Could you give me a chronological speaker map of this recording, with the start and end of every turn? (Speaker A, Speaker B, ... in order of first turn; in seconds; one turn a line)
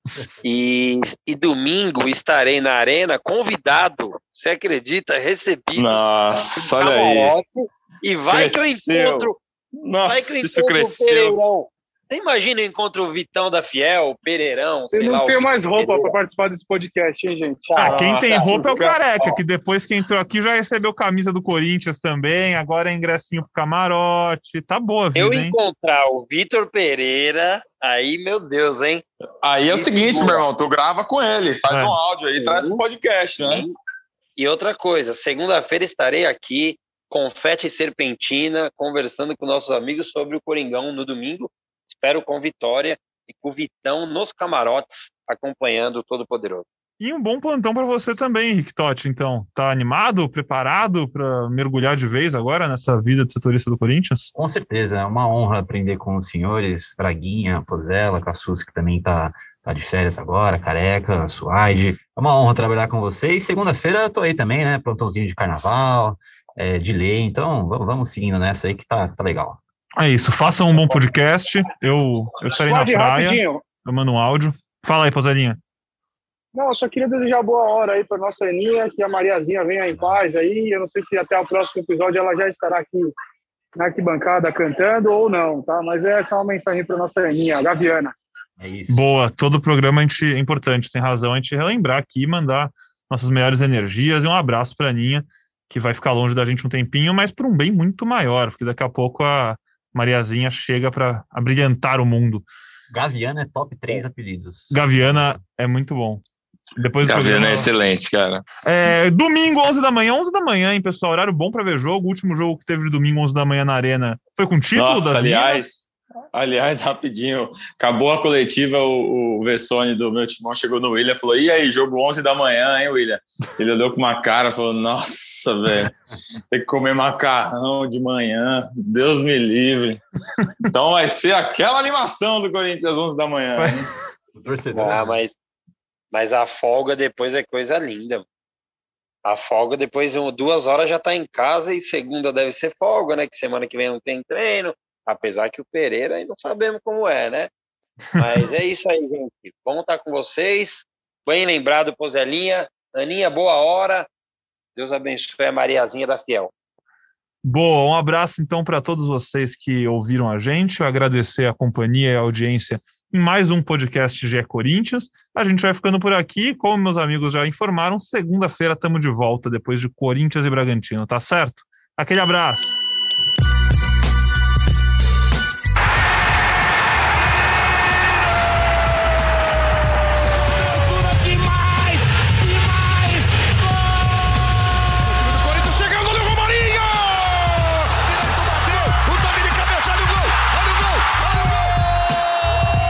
Speaker A: 0.4-9.4
Speaker B: 5.8-7.3
Speaker B: 8.3-11.4
Speaker A: 10.1-16.1
Speaker C: 14.9-17.8
Speaker A: 17.6-19.4
Speaker D: 17.8-25.5
Speaker B: 17.8-19.0
Speaker A: 25.1-29.0
Speaker B: 29.4-33.7
Speaker A: 29.7-30.4
Speaker D: 31.7-32.0
Speaker A: 32.4-32.8
Speaker A: 33.4-33.7
Speaker A: 34.4-46.6
Speaker D: 47.0-54.3
Speaker E: 54.3-69.6
Speaker D: 70.0-75.6
Speaker C: 72.5-73.6
Speaker C: 76.5-83.1
Speaker C: 83.8-88.1
Speaker E: 88.6-89.0
Speaker D: 88.9-102.5
Speaker E: 102.9-105.4
Speaker D: 104.7-106.2
Speaker D: 106.8-107.7
Speaker B: 107.0-108.4
Speaker D: 108.6-115.7
Speaker B: 114.7-125.9
Speaker B: 126.5-130.0
Speaker B: 130.7-133.9
Speaker D: 133.6-133.8
Speaker E: 134.3-135.2
Speaker A: 134.7-135.3
Speaker A: 136.1-138.2
Speaker A: 139.2-147.5
Speaker A: 148.2-154.1
Speaker A: 154.8-156.5
Speaker D: 157.4-172.7
Speaker D: 181.5-182.2
Speaker D: 182.9-183.2
Speaker D: 185.2-187.9
Speaker D: 189.0-190.3